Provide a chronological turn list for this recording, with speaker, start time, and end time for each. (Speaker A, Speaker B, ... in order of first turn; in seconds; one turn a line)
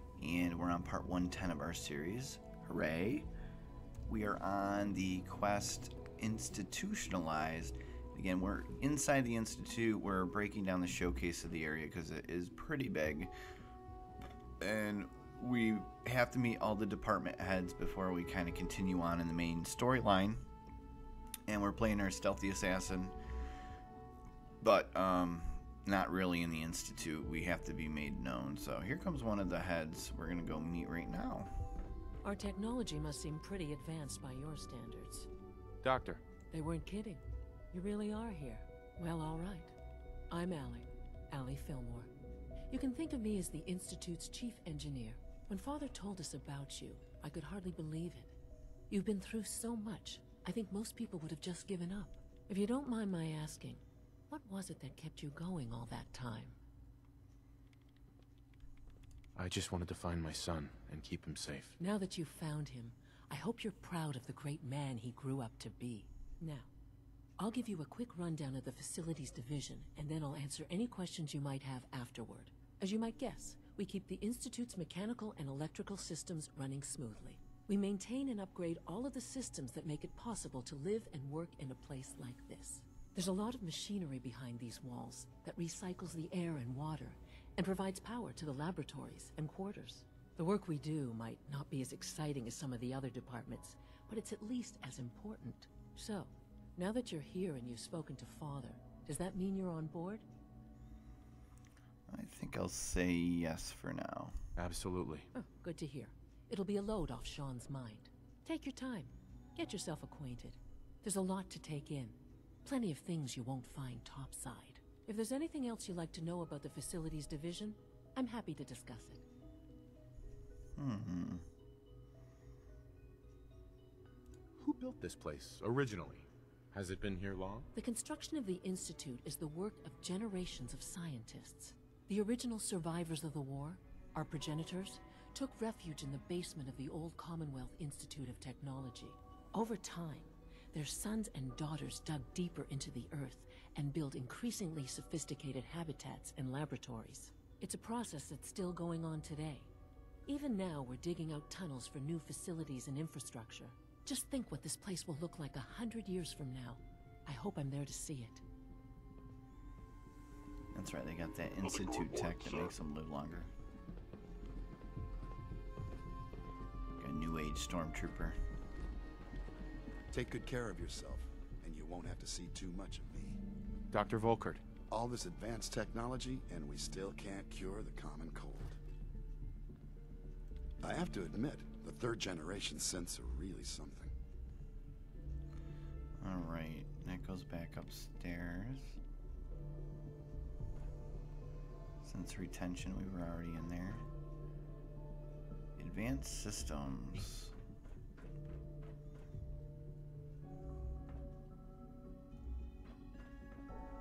Speaker A: 0.2-3.3
Speaker A: 4.0-13.3
Speaker A: 14.6-20.4
Speaker A: 21.5-23.1
Speaker A: 24.6-31.5
Speaker B: 32.2-35.3
Speaker C: 35.8-36.2
Speaker B: 36.5-39.7
Speaker B: 40.3-42.1
Speaker B: 42.7-48.3
Speaker B: 48.9-56.6
Speaker C: 59.3-61.8
Speaker B: 61.8-66.7
Speaker B: 67.4-100.2
Speaker A: 102.1-104.4
Speaker C: 104.6-105.3
Speaker B: 105.3-119.2
Speaker A: 120.8-121.5
Speaker C: 124.6-127.7
Speaker B: 127.7-149.7
Speaker B: 150.2-158.4
Speaker A: 160.7-163.5
Speaker A: 167.0-168.4
Speaker D: 170.1-173.4
Speaker C: 173.9-174.6
Speaker D: 174.9-178.8
Speaker D: 180.8-184.1
Speaker A: 186.2-189.0
Speaker A: 192.0-194.1
Speaker A: 195.8-197.5